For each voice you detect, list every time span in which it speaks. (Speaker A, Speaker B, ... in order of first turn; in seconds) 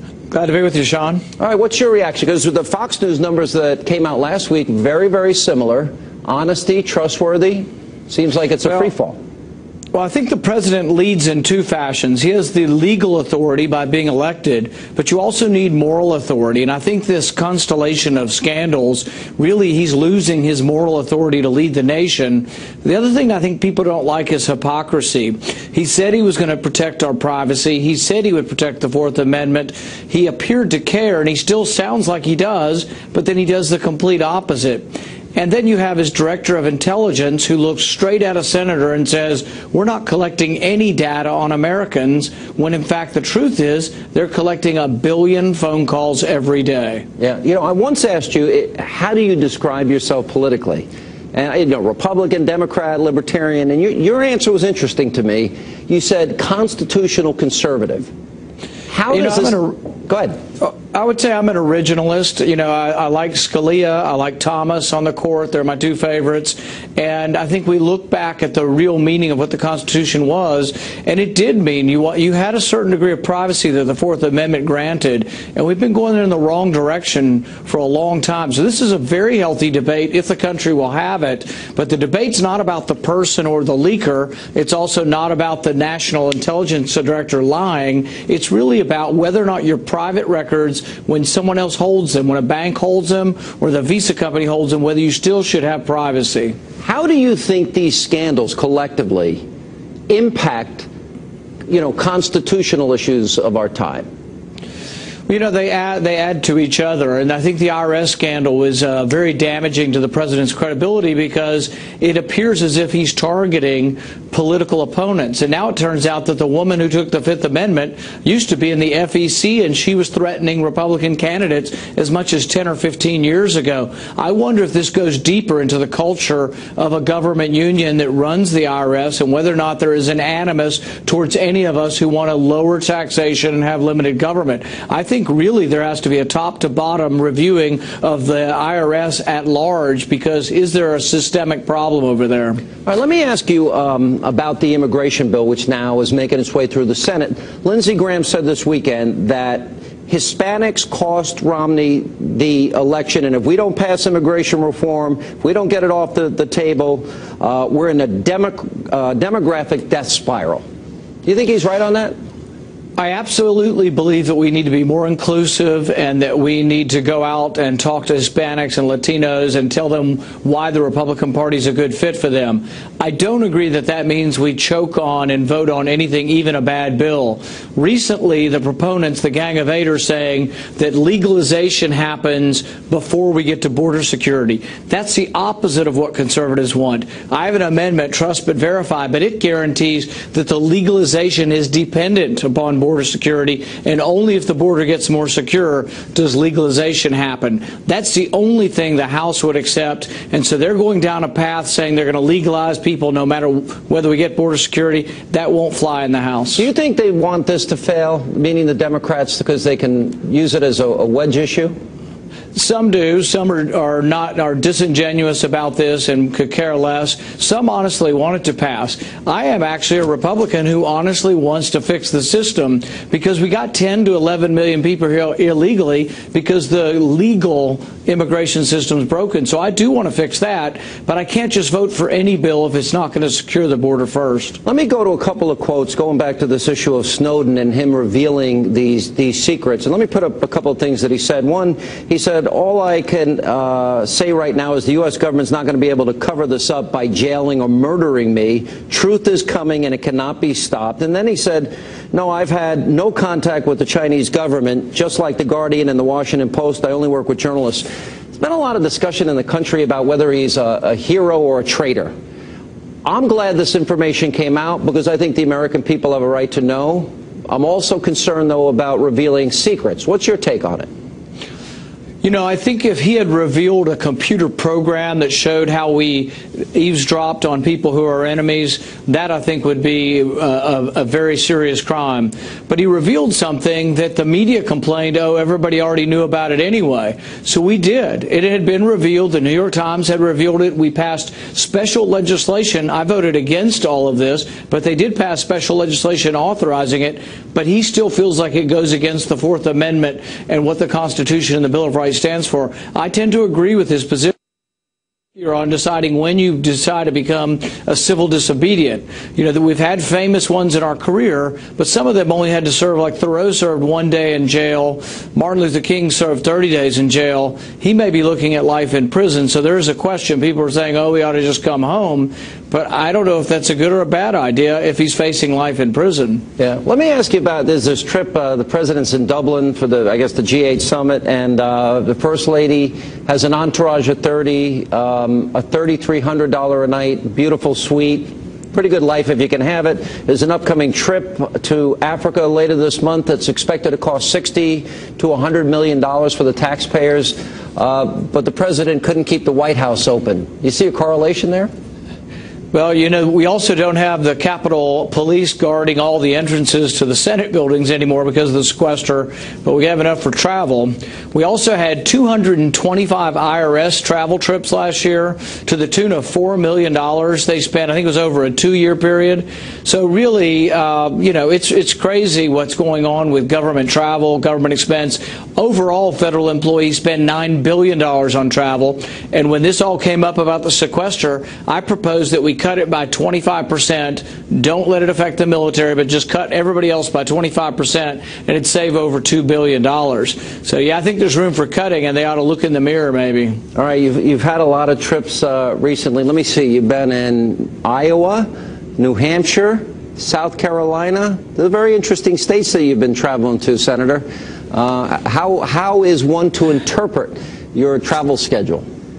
Speaker A: 0.3-1.2, 9.9-47.0, 59.1-59.8, 60.6-96.6, 105.3-142.7, 163.0-206.7, 212.6-234.6, 272.2-304.3, 305.4-326.4, 352.7-393.6
Speaker B: 1.4-9.2, 47.2-58.1, 58.9-60.4, 96.8-99.4, 100.1-100.9, 101.7-104.1, 142.8-160.6, 161.2-162.1, 206.6-211.8, 234.7-262.1, 263.1-270.9, 326.6-351.7, 393.8-408.9